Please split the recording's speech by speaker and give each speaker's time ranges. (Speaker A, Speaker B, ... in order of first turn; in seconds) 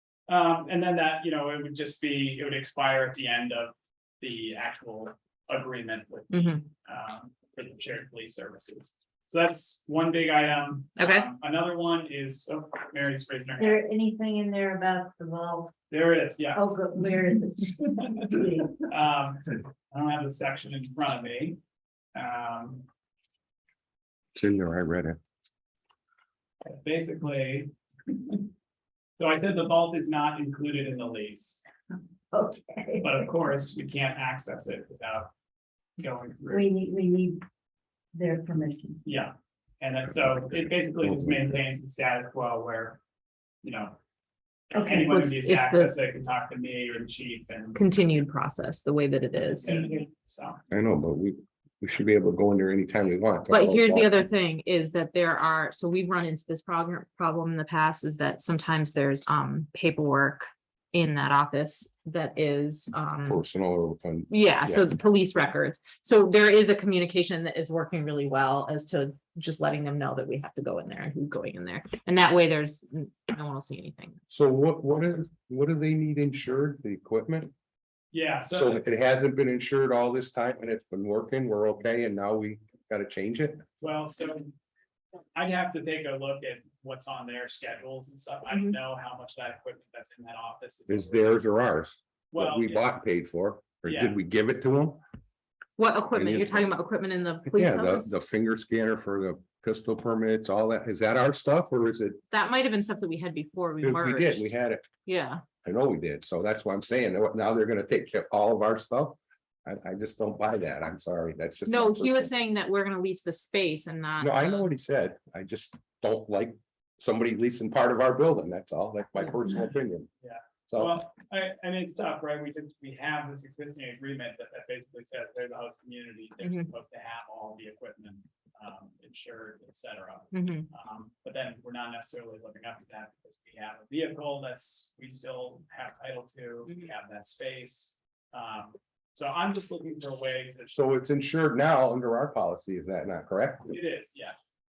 Speaker A: 0.3-13.8, 15.9-21.6, 22.1-22.9, 26.6-28.5, 29.2-31.6, 33.0-35.3, 36.0-36.7, 39.0-43.0, 43.6-44.0, 44.7-47.8, 49.6-50.6, 78.1-78.8, 83.8-84.5, 85.3-91.4, 92.3-92.9, 93.9-94.2, 120.2-140.8, 143.7-144.4
Speaker B: 6.3-6.6, 11.0-11.3, 44.8-46.0, 47.8-49.7, 53.5-63.4, 64.3-74.2, 88.5-88.8, 95.8-98.1, 102.3-104.5, 105.1-105.4, 111.7-114.7, 126.4-126.7, 130.3-130.7
Speaker C: 13.6-15.7, 16.5-17.9, 32.3-33.2, 36.5-37.4, 38.1-39.0, 49.6-50.0
Speaker D: 24.4-25.2, 41.0-41.5, 50.7-54.1, 63.3-64.8, 74.3-77.5, 78.5-83.6, 90.9-95.0, 96.2-96.7, 97.5-102.2, 103.8-104.9, 105.6-112.3, 114.2-120.1, 120.7-121.0, 140.7-143.7